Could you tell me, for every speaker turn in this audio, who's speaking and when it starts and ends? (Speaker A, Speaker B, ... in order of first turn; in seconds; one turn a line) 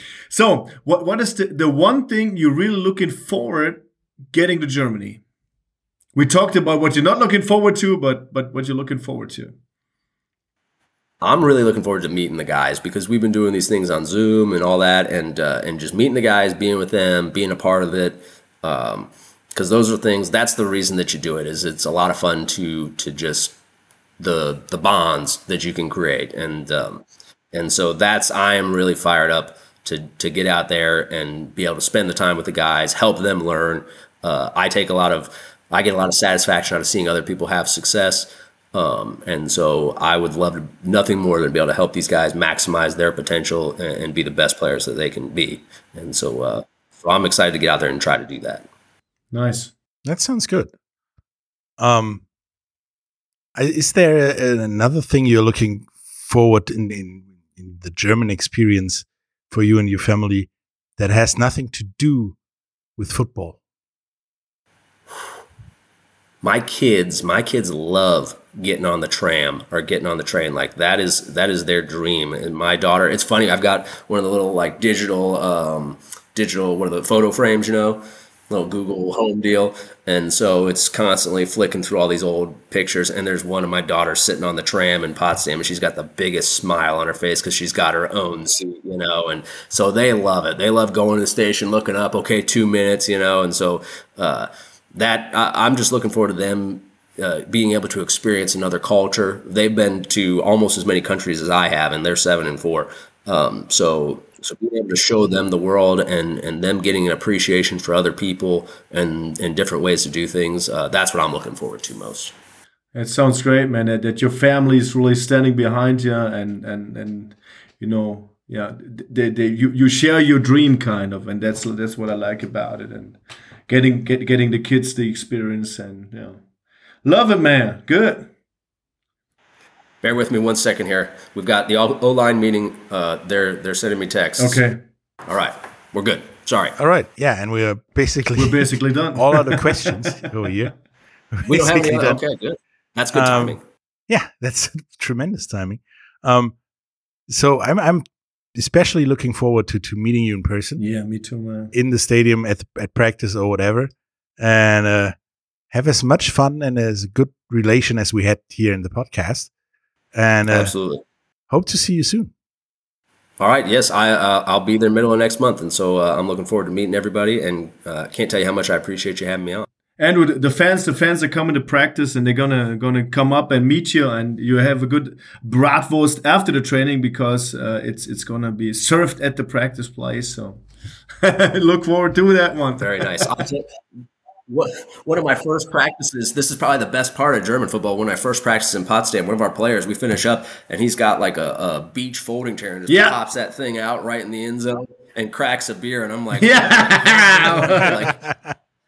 Speaker A: 0.3-5.2
Speaker A: 6.2-9.6
Speaker B: 11.2-23.6
Speaker B: 24.2-48.7
Speaker A: 49.3-49.7
Speaker C: 50.1-50.7
Speaker C: 51.8-52.2
Speaker C: 53.6-62.4
Speaker C: 63.0-63.6
Speaker B: 66.4-112.3
Speaker A: 113.0-126.4
Speaker A: 127.0-128.3
Speaker B: 130.0-134.6
Speaker A: 134.4-134.8
Speaker B: 135.3-136.8
Speaker C: 136.8-140.7
Speaker A: 138.4-140.2
Speaker C: 141.3-142.2
Speaker B: 141.5-143.6
Speaker C: 143.1-143.6
Speaker C: 144.1-146.6
Speaker C: 147.3-148.0
Speaker C: 148.6-150.8
Speaker A: 150.8-151.7
Speaker C: 151.7-155.1
Speaker C: 155.7-159.5
Speaker C: 160.1-160.7
Speaker B: 160.5-161.0
Speaker C: 161.5-162.3
Speaker B: 163.4-169.7
Speaker A: 170.0-180.6
Speaker A: 181.2-183.4
Speaker B: 182.8-183.7
Speaker B: 184.5-198.3
Speaker A: 192.9-193.2
Speaker A: 196.4-198.2